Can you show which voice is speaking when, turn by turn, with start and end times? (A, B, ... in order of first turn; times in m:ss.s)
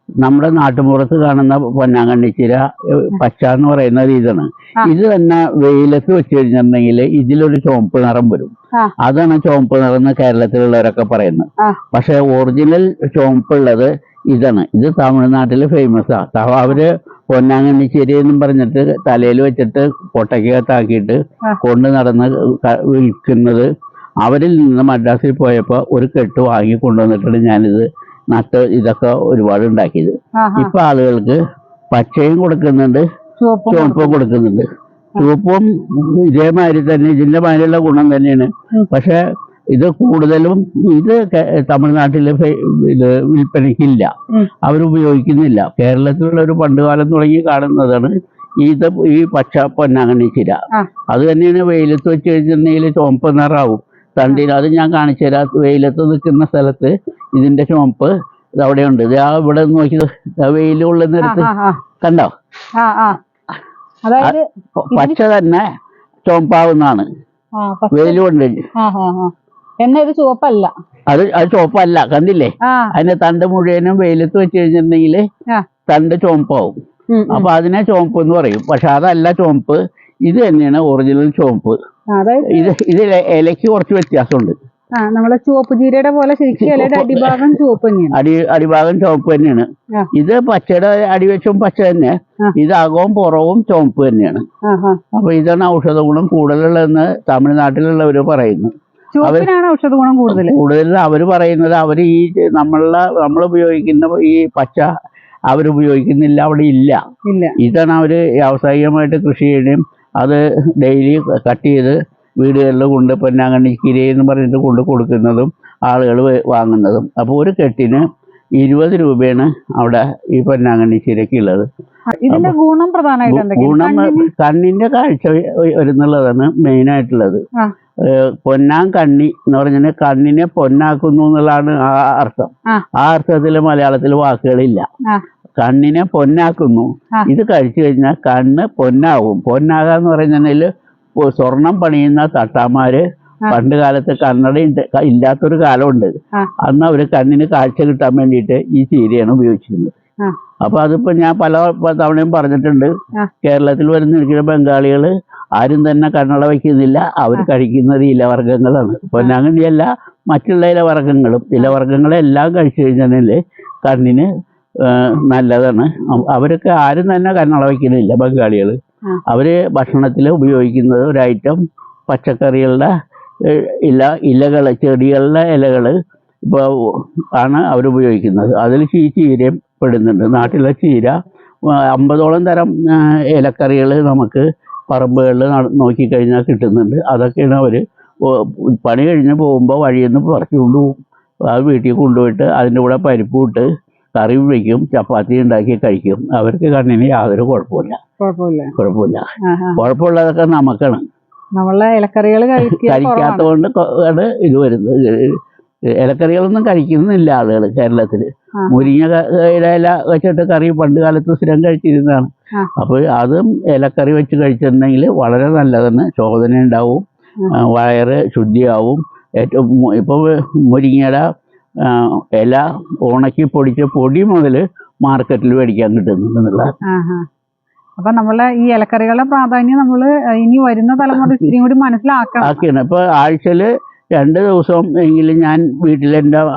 0:00.2-0:23.6 A
0:24.2-0:31.4 A
0:30.4-0:30.7 B
0:31.9-0:33.0 A
0:33.4-0:34.2 B
0:33.7-0:34.6 A
0:35.2-0:39.2 A
0:39.7-0:44.1 A
0:44.6-0:50.6 A
0:51.1-1:01.5 A
1:01.2-1:01.8 B
1:02.0-1:02.3 A
1:02.8-1:03.2 B
1:04.0-1:05.2 B
1:04.2-1:05.6 A
1:06.2-1:07.1 A
1:07.6-1:08.2 B
1:07.9-1:08.6 A
1:08.8-1:10.7 B
1:11.1-1:15.2 A
1:12.6-1:12.9 B
1:15.9-1:16.8 A
1:17.1-1:17.5 B
1:17.3-1:21.8 A
1:22.1-1:22.7 B
1:22.4-1:24.6 A
1:24.9-1:28.2 B
1:26.6-1:27.5 A
1:28.1-1:34.4 A
1:34.6-1:35.0 B
1:35.2-1:39.5 A
1:39.1-1:40.6 B
1:40.3-1:44.9 A
1:45.5-1:47.0 A
1:47.2-1:47.6 B
1:47.6-1:58.0 A
1:58.6-2:01.7 A
2:02.2-2:04.3 B
2:03.3-2:07.4 A
2:08.0-2:14.9 A
2:15.6-2:29.9 A
2:30.6-2:32.9 A
2:33.4-2:44.3 A
2:44.8-2:52.9 A
2:53.4-3:01.2 A
3:01.7-3:11.0 A
3:11.5-3:18.0 A
3:18.2-3:18.7 B
3:18.8-3:19.2 A
3:19.4-3:19.8 B
3:19.8-3:21.0 A
3:21.6-3:23.5 B
3:22.6-3:25.4 A
3:26.0-3:41.2 A
3:28.6-3:28.9 B
3:41.8-3:46.7 A
3:46.8-3:47.3 B
3:48.0-3:52.6 B
3:52.4-3:53.6 A
3:54.2-3:56.4 A